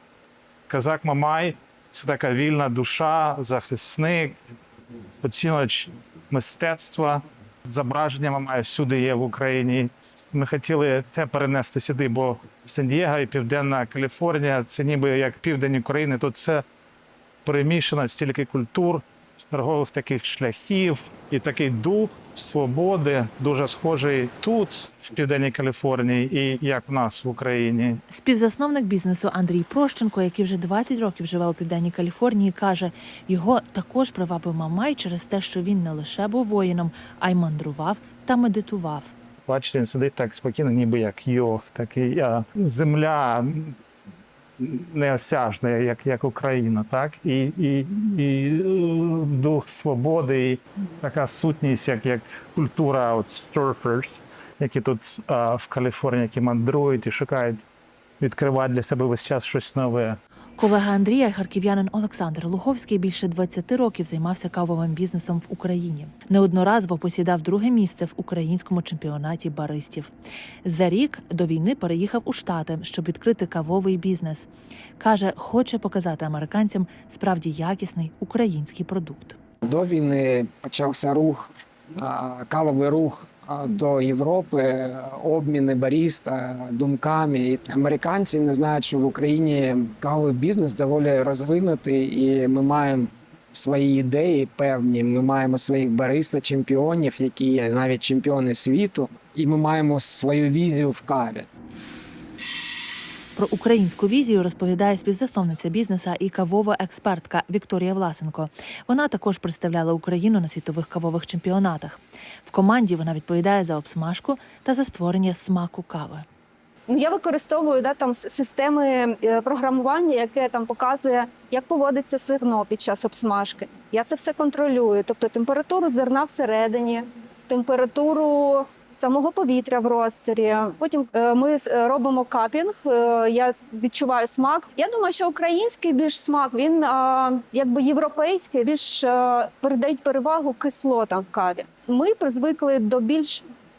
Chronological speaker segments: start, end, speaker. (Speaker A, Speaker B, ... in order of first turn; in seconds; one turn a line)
Speaker A: 0.7-4.4
Speaker A: 5.2-16.6
Speaker A: 17.4-28.0
Speaker B: 28.1-39.1
Speaker A: 39.5-43.8
Speaker A: 44.6-57.6
Speaker A: 58.2-60.2
Speaker B: 60.6-70.1
Speaker B: 70.6-79.4
Speaker C: 79.7-101.5
Speaker B: 103.4-116.3
Speaker D: 116.9-143.4